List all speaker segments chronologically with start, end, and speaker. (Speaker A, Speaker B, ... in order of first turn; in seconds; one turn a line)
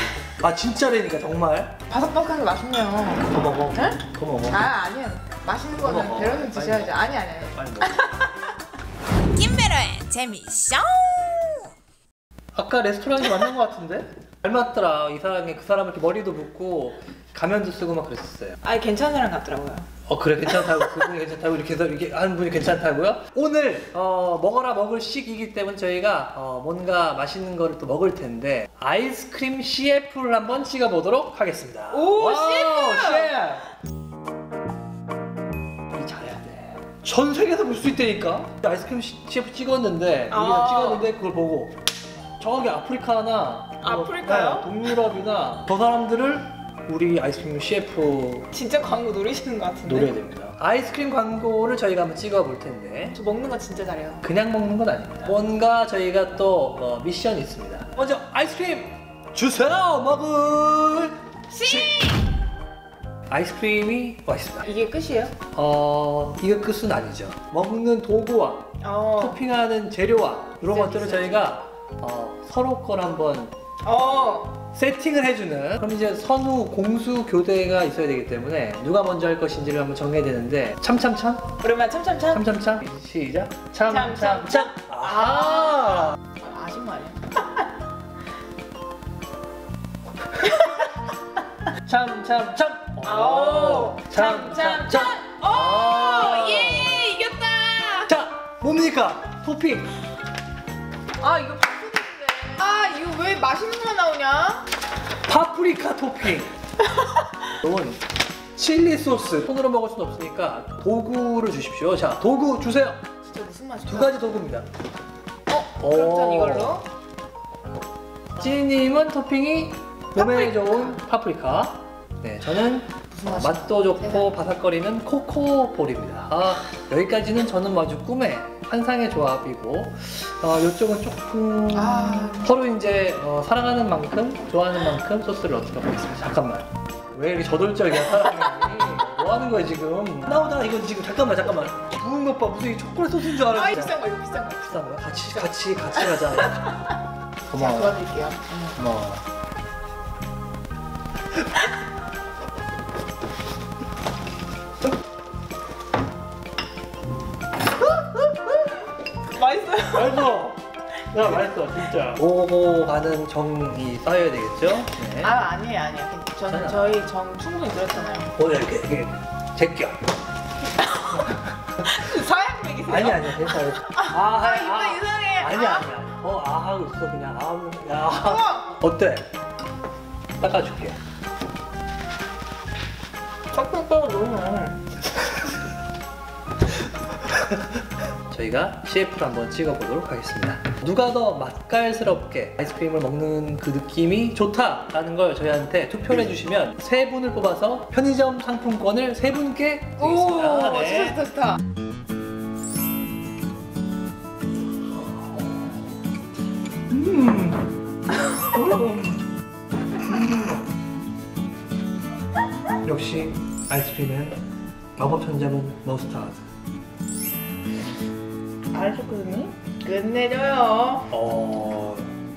Speaker A: 0.4-1.8
Speaker B: 1.9-4.0
Speaker A: 3.2-4.7
Speaker B: 4.5-8.3
Speaker A: 5.8-8.2
Speaker C: 9.3-11.7
Speaker A: 12.5-18.6
Speaker B: 18.6-19.9
Speaker A: 20.1-33.7
Speaker B: 31.9-33.3
Speaker A: 35.9-41.8
Speaker B: 40.3-41.0
Speaker A: 42.4-48.5
Speaker B: 43.8-44.7
Speaker B: 48.5-50.1
Speaker A: 49.8-53.2
Speaker B: 53.1-54.2
Speaker A: 54.2-62.2
Speaker B: 61.8-62.2
Speaker A: 63.3-64.7
Speaker B: 64.6-65.3
Speaker A: 65.5-73.5
Speaker B: 68.8-69.4
Speaker B: 70.7-71.5
Speaker B: 73.8-74.6
Speaker A: 74.7-81.5
Speaker B: 81.6-82.5
Speaker A: 82.3-86.2
Speaker B: 83.9-87.6
Speaker B: 90.4-90.9
Speaker A: 91.8-97.1
Speaker B: 93.0-98.1
Speaker A: 98.0-99.9
Speaker B: 101.2-104.7
Speaker A: 105.2-106.5
Speaker B: 106.8-107.2
Speaker A: 107.5-108.0
Speaker A: 108.5-113.0
Speaker B: 113.2-114.2
Speaker A: 113.8-114.7
Speaker B: 115.5-116.9
Speaker A: 115.8-116.8
Speaker A: 118.4-144.0
Speaker B: 120.2-121.0
Speaker B: 123.1-124.3
Speaker B: 131.7-132.5
Speaker B: 143.4-145.6
Speaker A: 144.6-146.9
Speaker A: 147.5-148.0
Speaker B: 147.5-148.8
Speaker A: 148.8-149.2
Speaker A: 158.0-158.5
Speaker B: 159.3-160.4
Speaker A: 159.9-165.4
Speaker B: 165.2-168.3
Speaker A: 166.5-167.0
Speaker A: 168.3-170.0
Speaker B: 170.8-171.3
Speaker B: 171.8-175.8
Speaker A: 172.9-179.3
Speaker B: 178.2-178.7
Speaker A: 180.4-181.0
Speaker B: 183.5-184.8
Speaker A: 188.3-201.2
Speaker B: 200.0-201.6
Speaker A: 206.9-207.7
Speaker A: 208.4-209.2
Speaker A: 210.0-210.7
Speaker A: 212.8-214.4
Speaker A: 215.0-216.4
Speaker B: 218.7-221.1
Speaker A: 221.1-222.1